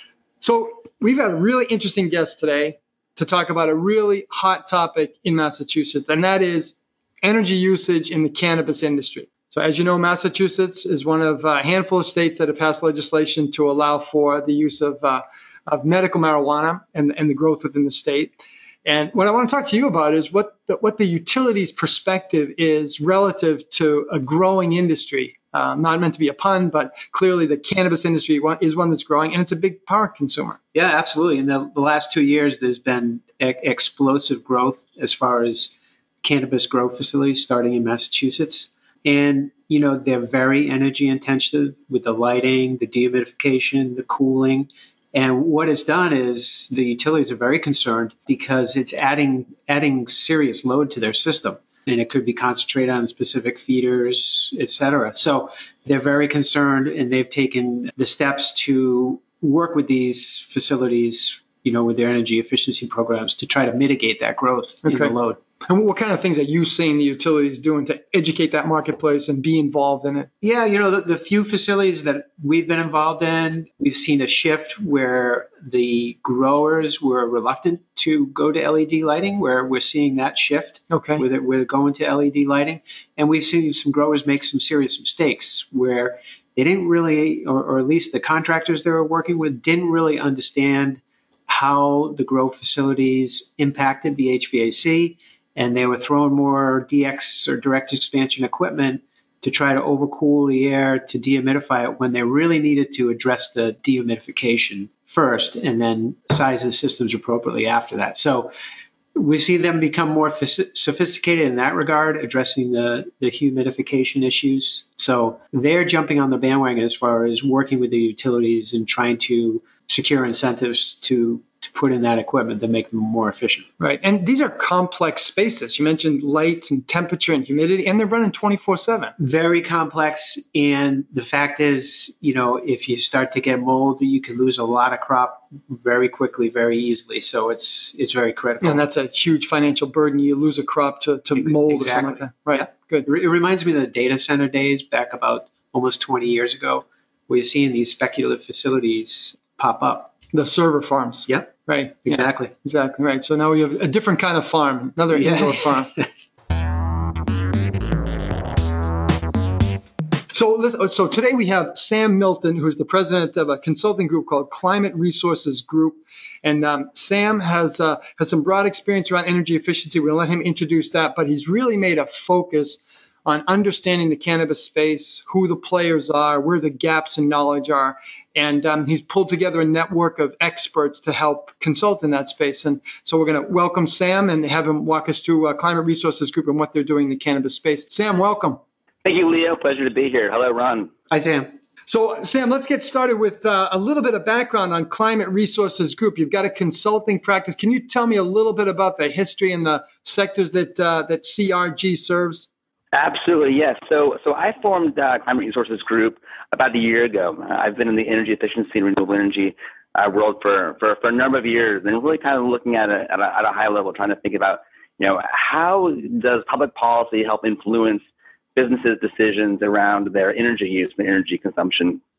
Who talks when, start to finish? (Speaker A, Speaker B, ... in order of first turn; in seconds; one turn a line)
Speaker A: 0.4-30.6
Speaker B: 30.7-65.4
Speaker A: 64.8-65.1
Speaker A: 65.6-70.3
Speaker B: 70.4-108.5
Speaker A: 80.9-81.2
Speaker B: 109.1-123.7
Speaker A: 123.8-129.1
Speaker B: 129.2-138.8
Speaker A: 138.6-143.1
Speaker B: 141.4-150.1
Speaker A: 150.3-155.9
Speaker B: 151.3-151.5
Speaker B: 152.0-152.5
Speaker B: 155.1-156.1
Speaker A: 160.3-188.6
Speaker C: 189.0-190.9
Speaker B: 191.1-191.5
Speaker A: 191.9-202.5
Speaker C: 202.9-218.0
Speaker C: 218.6-222.0